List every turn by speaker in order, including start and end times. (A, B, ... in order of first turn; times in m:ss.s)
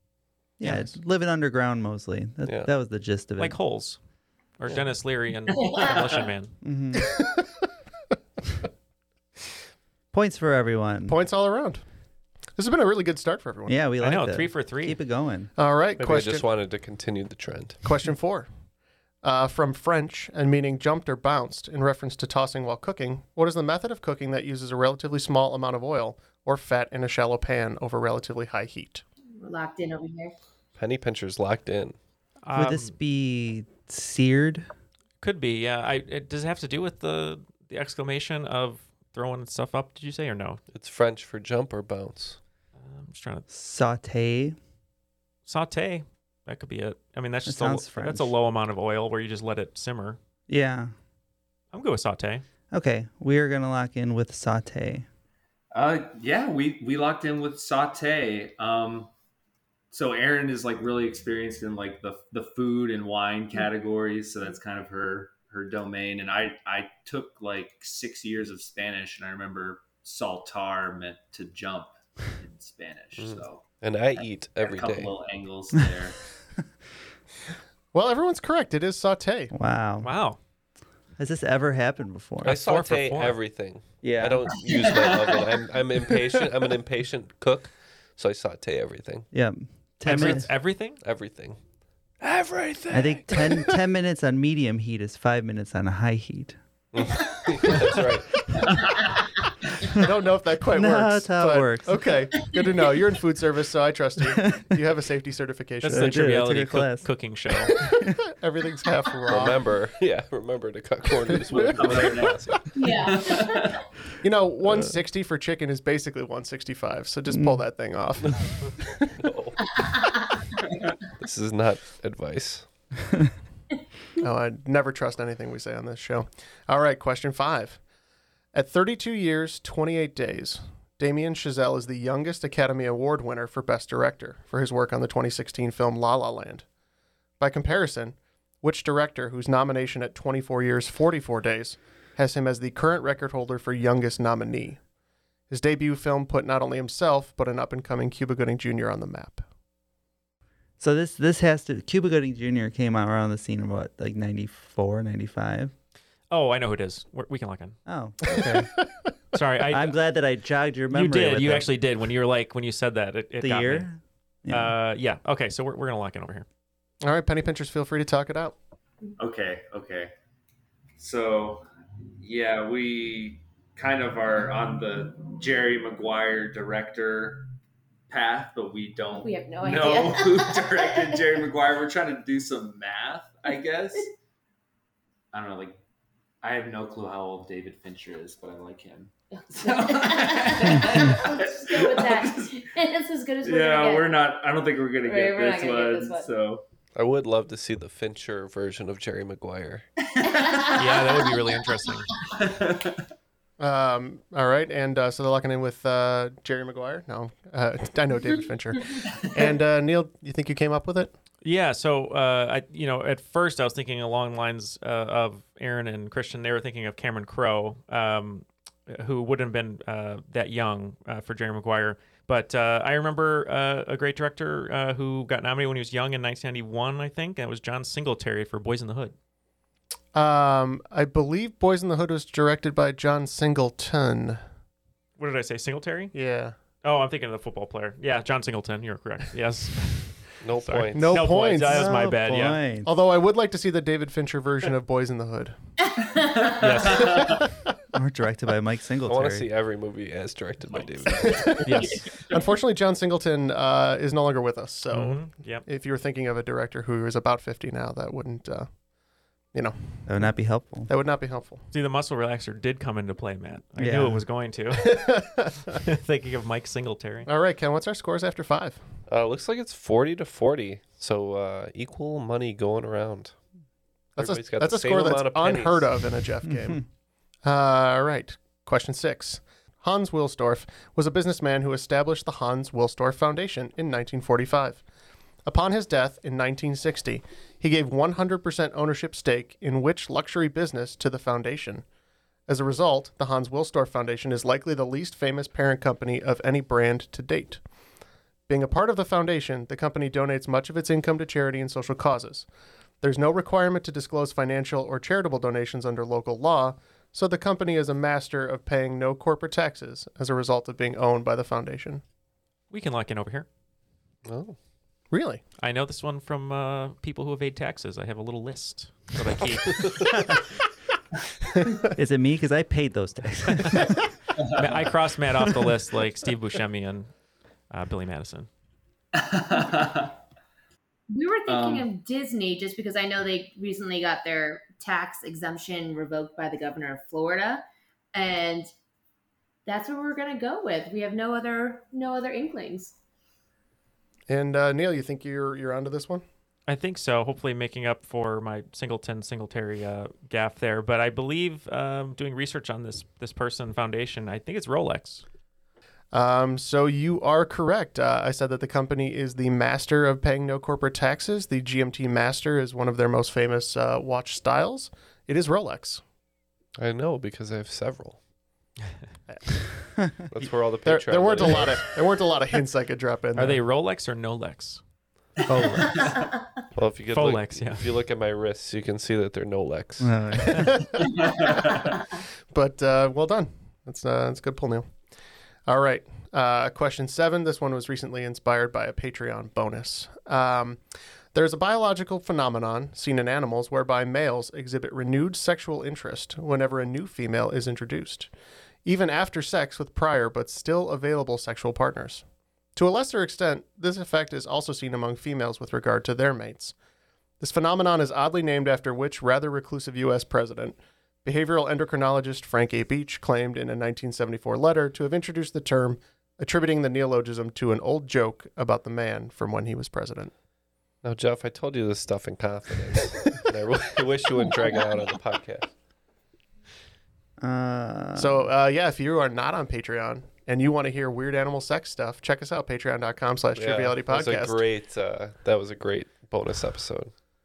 0:00.6-0:03.6 A
0:02.4-0:02.7 B
0:03.4-0:04.0 C
0:04.6-0:06.6 C
0:06.6-0:07.2 A
0:10.1-0:11.2 A
0:11.1-0:11.8 D
0:12.6-0:13.8 D
0:13.7-0:15.5 A
0:14.0-0:15.0 C
0:15.6-0:16.5 D
0:16.0-0:17.8 B
0:17.8-0:18.5 D
0:19.2-0:29.0 D
0:29.4-0:30.4 E
0:30.8-0:32.0 B
0:32.4-0:32.9 C
0:32.5-0:34.7 A
0:35.2-0:40.6 C
0:40.7-0:42.4 B
0:42.8-0:43.5 C
0:43.5-0:44.6 A
0:45.5-0:50.2 C
0:47.5-0:48.3 A
0:50.5-0:50.9 A
0:51.7-0:52.4 C
0:52.7-0:55.1 A
0:55.7-0:59.1 F
0:59.9-1:13.6 F
1:13.2-1:15.1 B
1:14.2-1:16.2 F
1:17.9-1:19.5 D
1:19.5-1:20.1 A
1:20.0-1:20.4 C
1:21.2-1:22.6 A
1:22.4-1:29.3 B
1:22.4-1:23.4 C
1:24.0-1:24.6 A
1:29.3-1:30.5 A
1:30.0-1:31.0 C
1:30.1-1:30.5 B
1:31.0-1:31.6 B
1:32.2-1:33.6 B
1:32.9-1:36.6 A
1:36.9-1:38.4 B
1:40.0-1:46.3 D
1:40.7-1:42.1 A
1:44.4-1:44.6 A
1:45.8-1:47.8 C
1:45.9-1:47.1 A
1:48.4-1:49.6 D
1:49.3-1:52.6 B
1:51.3-1:52.1 D
1:51.6-1:53.8 F
1:52.7-1:53.7 E
1:54.2-1:58.5 D
1:57.3-1:57.6 A
1:59.2-1:59.6 B
1:59.8-2:00.1 E
2:01.2-2:02.7 B
2:04.2-2:07.8 D
2:08.5-2:16.6 D
2:17.4-2:24.8 D
2:25.5-2:29.4 D
2:30.8-2:35.7 A
2:36.3-2:37.8 C
2:37.9-2:38.7 A
2:39.3-2:40.0 C
2:39.7-2:41.7 A
2:40.9-2:43.9 C
2:43.4-2:44.8 A
2:44.5-2:46.5 C
2:47.0-2:48.6 D
2:49.2-2:50.1 F
2:51.0-2:51.6 F
2:52.2-2:57.5 F
2:58.1-3:04.1 F
2:59.2-3:01.4 E
3:05.3-3:05.8 F
3:06.4-3:12.7 F
3:09.5-3:14.2 E
3:13.4-3:16.6 F
3:15.0-3:16.3 E
3:17.0-3:19.9 B
3:20.2-3:20.7 F
3:20.2-3:21.2 E
3:20.8-3:22.1 C
3:22.4-3:23.0 F
3:23.6-3:31.1 D
3:31.4-3:49.1 C
3:50.1-3:54.4 D
3:55.2-3:56.1 C
3:56.1-3:56.6 D
3:56.8-4:02.6 C
4:00.4-4:01.4 B
4:00.9-4:02.0 D
4:01.6-4:02.9 A
4:02.8-4:05.6 D
4:06.2-4:07.4 F
4:06.6-4:07.2 C
4:07.9-4:09.5 A
4:09.1-4:11.6 B
4:11.2-4:18.7 D
4:11.2-4:11.5 F
4:11.6-4:12.0 C
4:14.9-4:15.7 C
4:19.5-4:20.0 D
4:20.1-4:20.9 A
4:20.9-4:21.6 D
4:21.7-4:25.0 C
4:23.8-4:24.2 A
4:24.8-4:25.8 D
4:25.8-4:27.3 C
4:27.3-4:28.8 D
4:29.1-4:33.4 B
4:34.2-4:35.9 B
4:34.2-4:36.9 D
4:36.5-4:36.8 A
4:37.4-4:44.8 D
4:45.5-4:51.8 D
4:52.5-4:57.6 D
4:58.5-5:02.5 D
5:03.0-5:12.0 D
5:12.7-5:13.5 C
5:14.3-5:14.6 B
5:15.1-5:15.4 D
5:15.6-5:20.0 C
5:22.0-5:24.0 A
5:24.4-5:24.8 F
5:24.6-5:27.1 C
5:27.7-5:28.5 C
5:29.2-5:30.1 F
5:31.1-5:38.7 E
5:31.5-5:31.9 F
5:39.7-5:43.0 E
5:44.3-5:46.2 D
5:46.7-5:55.2 C
5:56.1-6:06.0 D
6:06.8-6:08.2 B
6:09.3-6:09.6 D
6:10.3-6:11.9 B
6:10.8-6:13.6 D
6:13.4-6:14.8 C
6:15.5-6:15.8 C
6:16.8-6:20.2 B
6:17.1-6:17.8 C
6:20.0-6:20.8 A
6:20.5-6:21.8 D
6:21.4-6:21.9 F
6:22.5-6:24.9 D
6:25.7-6:30.8 D
6:31.3-6:38.3 D
6:38.8-6:42.2 D
6:42.8-6:46.7 D
6:47.4-7:00.3 D
7:01.0-7:05.7 B
7:07.4-7:08.5 A
7:08.2-7:14.6 D
7:13.6-7:17.1 B